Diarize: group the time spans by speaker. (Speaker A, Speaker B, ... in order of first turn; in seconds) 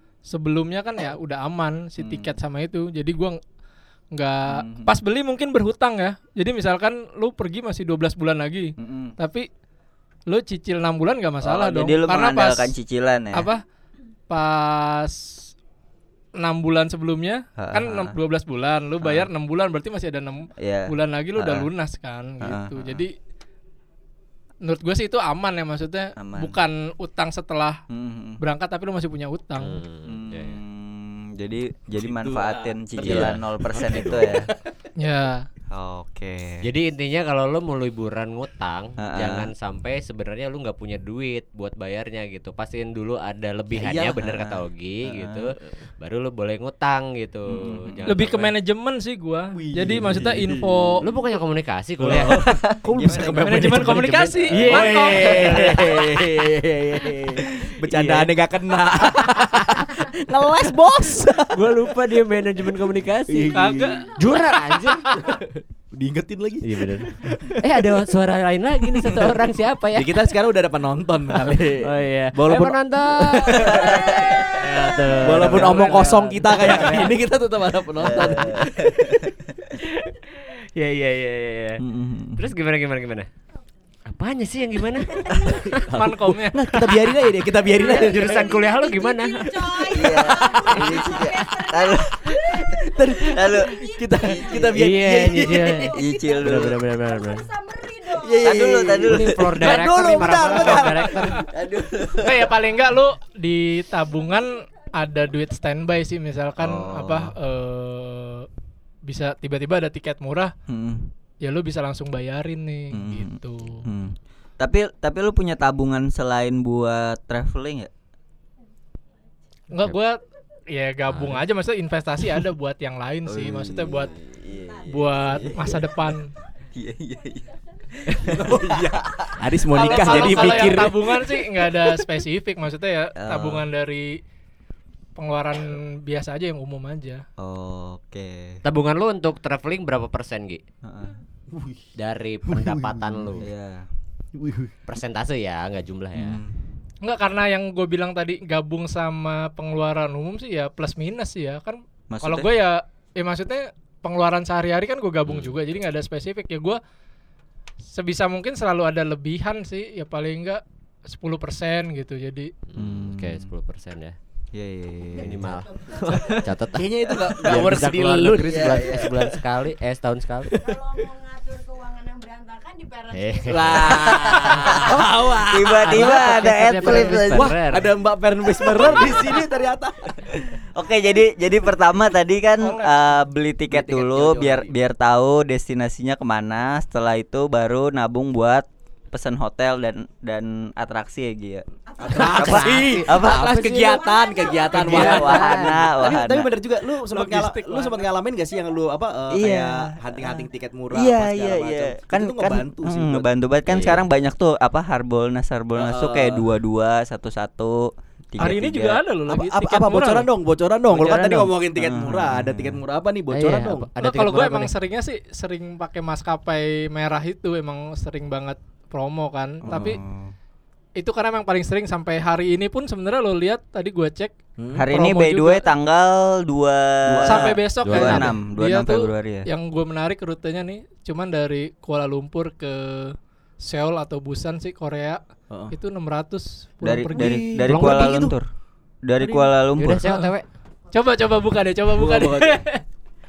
Speaker A: 0.3-3.4, 4.1-9.5, 10.3-12.7, 13.3-13.6, 14.3-15.3, 16.4-23.1, 24.6-27.8, 28.4-29.8, 35.0-35.5, 48.1-51.0, 53.4-55.5, 63.5-65.4, 85.9-87.1, 102.2-108.5, 109.1-110.5, 111.4-113.8, 119.7-120.2, 120.7-124.1, 124.8-126.3, 129.7-134.2, 135.2-137.2, 147.0-156.8, 157.9-162.5, 182.6-182.9, 194.8-195.2, 196.9-198.1, 208.4-210.3, 214.0-220.0, 221.0-224.3, 224.9-225.7, 227.2-235.2, 235.7-237.4, 240.0-240.3, 240.9-242.8
Speaker B: 2.0-2.3, 4.5-4.9, 8.8-9.1, 11.4-13.5, 17.6-18.1, 19.0-19.3, 20.6-21.7, 22.4-23.0, 26.2-26.6, 27.9-28.4, 30.1-34.5, 35.7-36.6, 39.0-39.5, 44.2-45.5, 47.5-48.3, 52.3-53.5, 78.0-78.7, 81.8-82.5, 89.9-94.6, 96.0-96.8, 98.4-99.9, 100.5-100.8, 101.5-102.5, 106.6-107.3, 110.7-111.1, 112.9-117.9, 123.2-125.8, 126.7-130.7, 133.2-133.7, 137.4-138.6, 140.8-141.2, 143.4-143.9, 146.2-146.6, 152.1-152.5, 162.8-163.5, 164.5-165.6, 166.1-166.4, 167.3-167.6, 168.4-169.1, 173.9-174.6, 175.5-177.5, 178.6-179.4, 180.2-193.5, 194.7-196.5, 199.3-209.0, 210.9-212.8, 219.6-220.3, 224.7-229.4, 236.8-238.4, 239.0-240.0
Speaker C: 29.6-30.6, 33.0-34.5, 36.6-48.5, 51.0-52.4, 53.0-56.3, 57.8-58.3, 61.5-65.2, 66.6-70.3, 71.8-77.2, 78.0-78.8, 79.8-81.8, 82.3-83.3, 84.1-85.8, 87.7-90.6, 94.7-97.5, 99.0-101.4, 121.1-121.4, 138.6-140.6, 142.0-143.5, 144.9-146.4, 162.7-164.2, 165.2-166.9, 167.4-170.6, 173.1-177.9, 192.3-194.0, 194.8-195.6, 213.3-214.7, 227.8-228.3, 237.7-238.2, 239.8-240.4
Speaker D: 31.9-33.4, 33.9-34.7, 43.7-44.2, 49.5-50.9, 52.0-62.0, 63.3-64.1, 65.1-67.6, 68.9-69.4, 69.9-79.2, 85.2-88.7, 90.1-91.0, 92.7-96.8, 98.1-101.5, 128.1-131.3, 141.5-141.9, 142.4-143.4, 144.3-144.7, 166.7-169.4, 170.5-170.8, 173.5-180.4, 183.7-184.7, 192.0-204.0, 205.7-206.4, 209.3-213.9, 224.6-224.9, 227.1-227.6, 237.1-238.3, 239.2-239.5, 241.9-242.6
Speaker E: 85.2-85.6, 87.7-94.8, 95.9-99.0, 165.3-166.5, 170.6-174.9, 192.0-192.5, 193.4-194.8